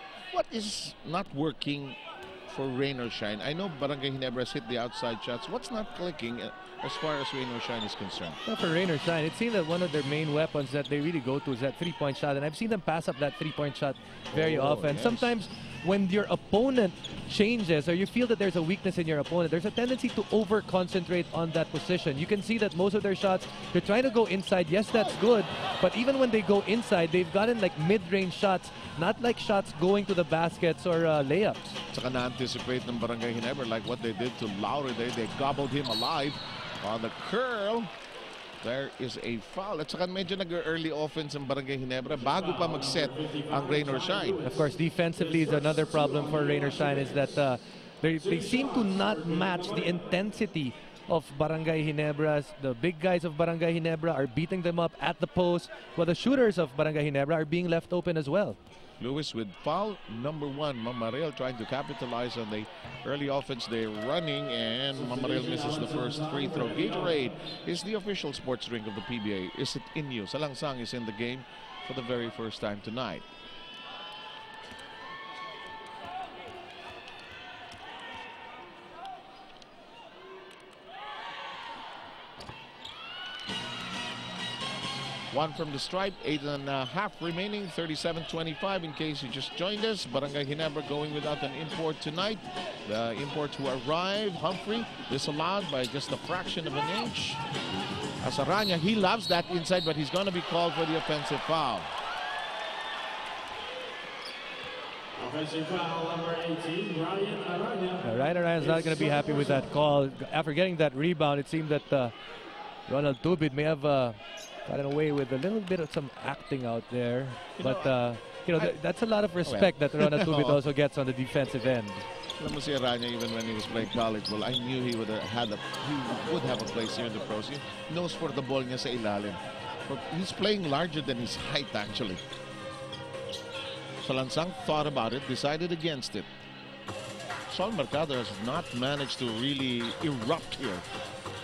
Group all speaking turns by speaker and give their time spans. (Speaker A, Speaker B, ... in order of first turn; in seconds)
Speaker A: 0.3-8.4, 14.3-15.3, 31.9-37.9, 38.6-44.4, 59.0-73.2, 85.3-97.4, 98.2-101.9, 117.6-118.0, 119.4-120.6, 122.4-132.2, 134.0-136.3, 137.5-140.8
Speaker B: 8.4-31.8, 44.4-58.6, 108.0-112.1, 112.9-122.0
Speaker C: 42.2-47.4, 48.2-50.0, 65.0-67.3, 105.2-109.7